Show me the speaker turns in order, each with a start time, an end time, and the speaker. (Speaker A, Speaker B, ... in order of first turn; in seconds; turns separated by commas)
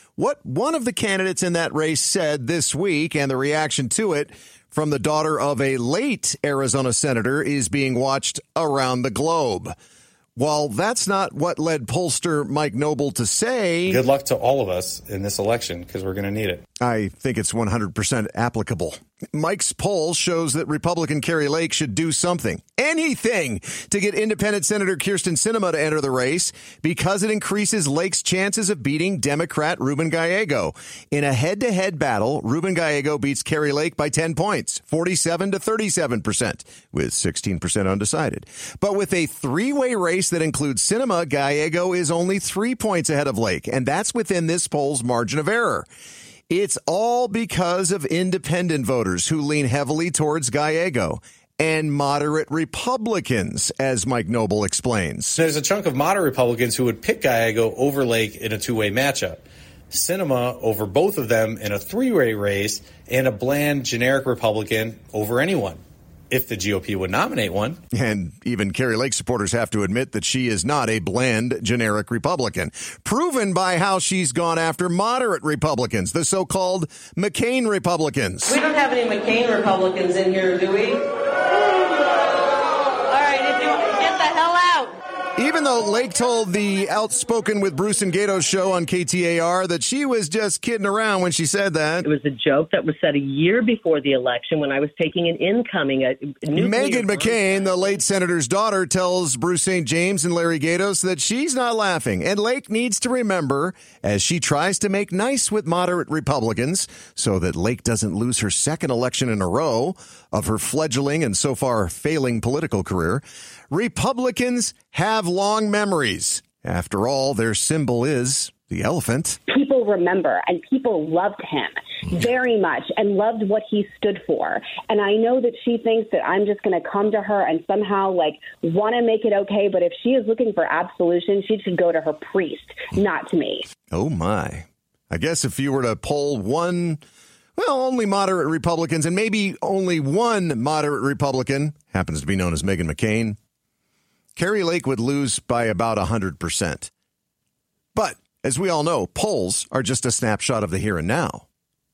Speaker A: 0.2-9.7, Speaker A: 10.4-14.0, Speaker B: 13.9-16.6, Speaker A: 16.8-45.9, Speaker A: 46.5-55.4, Speaker B: 55.4-67.8, Speaker A: 67.9-78.6, Speaker C: 78.8-80.0, Speaker C: 83.2-84.9, Speaker A: 85.4-92.1, Speaker D: 92.0-98.0, Speaker A: 96.6-119.4, Speaker E: 119.5-133.7, Speaker A: 133.9-137.0, Speaker A: 137.6-143.4, Speaker A: 144.4-146.9, Speaker A: 147.9-151.5